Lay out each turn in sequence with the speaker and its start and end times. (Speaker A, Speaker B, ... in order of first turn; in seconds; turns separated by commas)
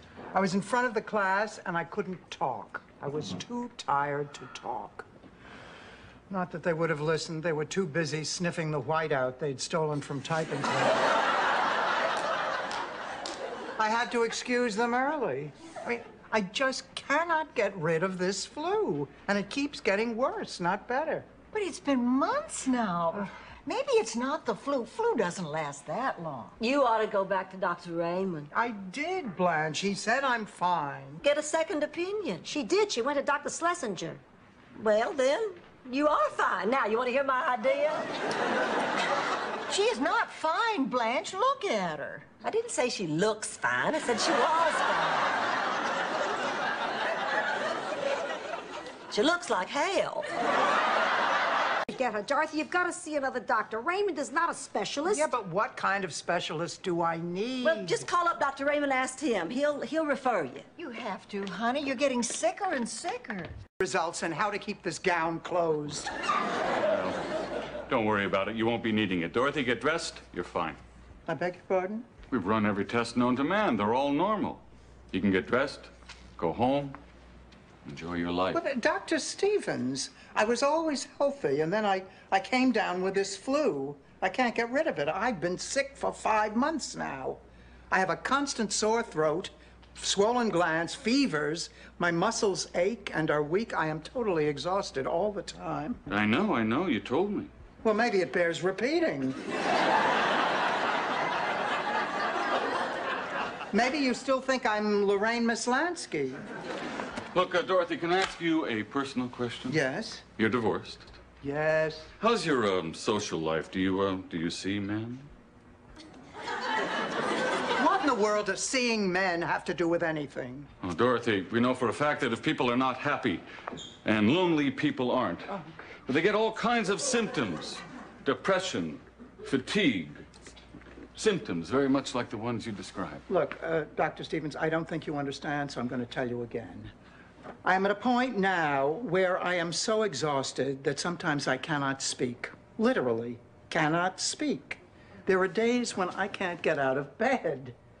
Speaker A: 0.3-5.0, Speaker A: 6.3-11.0, Speaker A: 13.8-21.3, Speaker B: 21.5-26.5, Speaker C: 26.6-28.5, Speaker A: 28.5-31.2, Speaker C: 31.2-32.4, Speaker D: 32.4-34.2, Speaker C: 34.8-38.0, Speaker B: 39.7-42.2, Speaker C: 42.4-45.3, Speaker C: 49.1-50.3, Speaker D: 51.9-55.3, Speaker A: 55.0-58.1, Speaker C: 57.6-60.6, Speaker B: 60.8-63.6, Speaker A: 63.8-66.1, Speaker E: 66.9-67.2, Speaker E: 67.9-70.8, Speaker A: 71.3-72.1, Speaker E: 72.3-77.0, Speaker E: 77.8-78.6, Speaker A: 78.5-87.4, Speaker A: 87.9-96.0, Speaker E: 96.1-97.5, Speaker A: 97.8-99.4, Speaker A: 103.7-106.4, Speaker E: 107.3-109.8, Speaker A: 109.7-110.2, Speaker E: 110.4-111.1, Speaker A: 111.4-112.1, Speaker E: 112.2-115.3, Speaker A: 117.8-120.7, Speaker E: 120.8-123.4, Speaker E: 124.0-125.5, Speaker E: 126.1-130.2, Speaker E: 131.2-133.2, Speaker A: 133.3-136.9, Speaker A: 137.6-147.8